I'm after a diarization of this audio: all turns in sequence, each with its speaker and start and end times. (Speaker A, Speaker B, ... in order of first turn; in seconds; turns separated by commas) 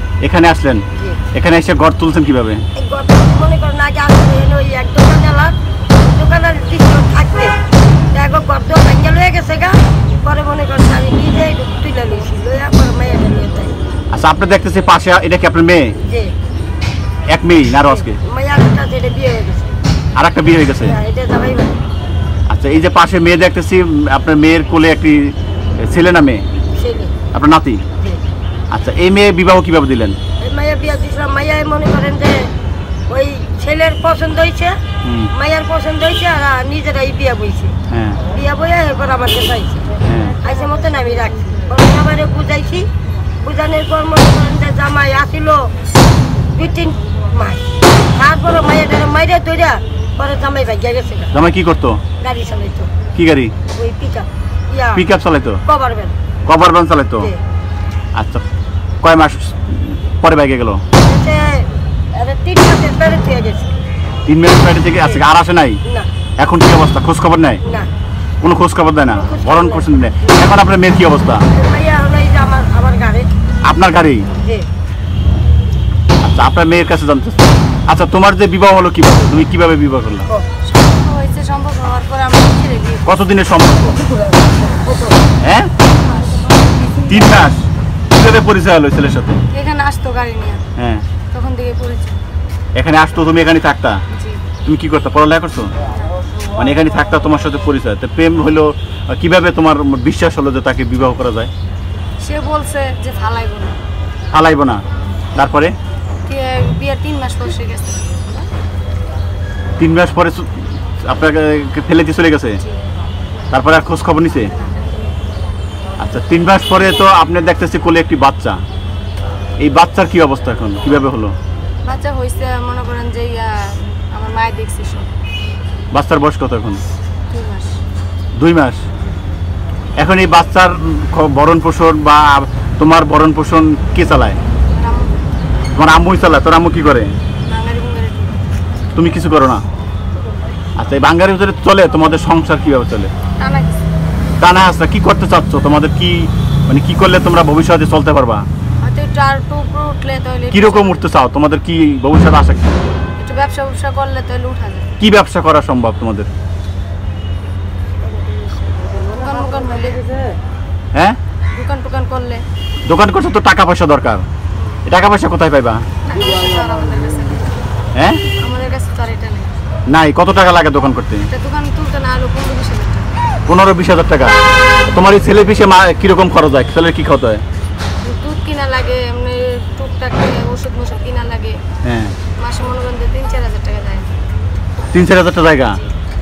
Speaker A: 0.2-2.7, Speaker B: 0.9-1.2, Speaker B: 2.8-7.6, Speaker B: 8.1-13.8, Speaker A: 14.1-16.0, Speaker B: 16.1-16.3, Speaker A: 17.3-18.2, Speaker B: 17.8-19.8, Speaker A: 20.2-21.0, Speaker B: 20.7-21.8, Speaker A: 22.5-26.4, Speaker B: 26.8-27.2, Speaker A: 27.3-27.9, Speaker B: 28.0-28.2, Speaker A: 28.7-30.2, Speaker B: 30.4-32.5, Speaker B: 33.1-34.8, Speaker A: 35.0-35.3, Speaker B: 35.3-42.9, Speaker A: 37.9-38.2, Speaker A: 40.0-40.4, Speaker B: 43.4-45.7, Speaker B: 46.5-51.4, Speaker A: 51.3-52.0, Speaker B: 52.2-53.0, Speaker A: 53.1-53.5, Speaker B: 53.7-55.1, Speaker A: 55.0-55.6, Speaker B: 55.6-56.2, Speaker A: 56.5-57.3, Speaker A: 58.1-58.4, Speaker A: 59.0-60.8, Speaker B: 61.0-63.8, Speaker A: 64.3-65.8, Speaker A: 66.4-67.6, Speaker B: 67.6-67.9, Speaker A: 68.4-71.4, Speaker B: 69.0-70.3, Speaker B: 71.5-73.3, Speaker A: 73.7-74.3, Speaker A: 76.2-80.3, Speaker C: 80.7-83.2, Speaker A: 83.1-84.0, Speaker A: 85.4-85.7, Speaker A: 87.0-89.4, Speaker C: 89.5-90.6, Speaker A: 90.8-91.0, Speaker C: 91.3-92.2, Speaker A: 92.8-94.0, Speaker C: 94.1-94.5, Speaker A: 94.7-95.7, Speaker A: 96.5-101.5, Speaker C: 102.2-103.8, Speaker A: 104.3-104.8, Speaker A: 105.3-105.7, Speaker C: 106.3-108.5, Speaker A: 109.8-112.6, Speaker A: 113.5-114.5, Speaker A: 116.0-118.6, Speaker A: 119.6-121.3, Speaker C: 121.9-125.1, Speaker A: 125.9-126.8, Speaker C: 127.3-127.8, Speaker A: 128.4-128.8, Speaker A: 130.0-134.4, Speaker C: 134.7-135.3, Speaker A: 135.7-137.1, Speaker C: 137.5-138.4, Speaker A: 138.9-139.6, Speaker A: 140.8-143.1, Speaker C: 143.4-143.8, Speaker A: 144.4-148.5, Speaker C: 148.8-151.1, Speaker A: 150.5-152.7, Speaker C: 153.2-154.9, Speaker A: 155.0-156.3, Speaker C: 159.0-160.1, Speaker C: 161.5-162.4, Speaker A: 162.9-164.3, Speaker C: 164.6-164.8, Speaker A: 164.9-165.9, Speaker C: 166.0-167.7, Speaker A: 167.9-168.2, Speaker C: 168.3-169.6, Speaker A: 169.9-171.3, Speaker C: 171.3-173.1, Speaker A: 173.5-174.4, Speaker A: 174.9-177.4, Speaker C: 178.0-181.6, Speaker A: 181.8-182.2, Speaker C: 182.4-184.2, Speaker A: 184.9-185.8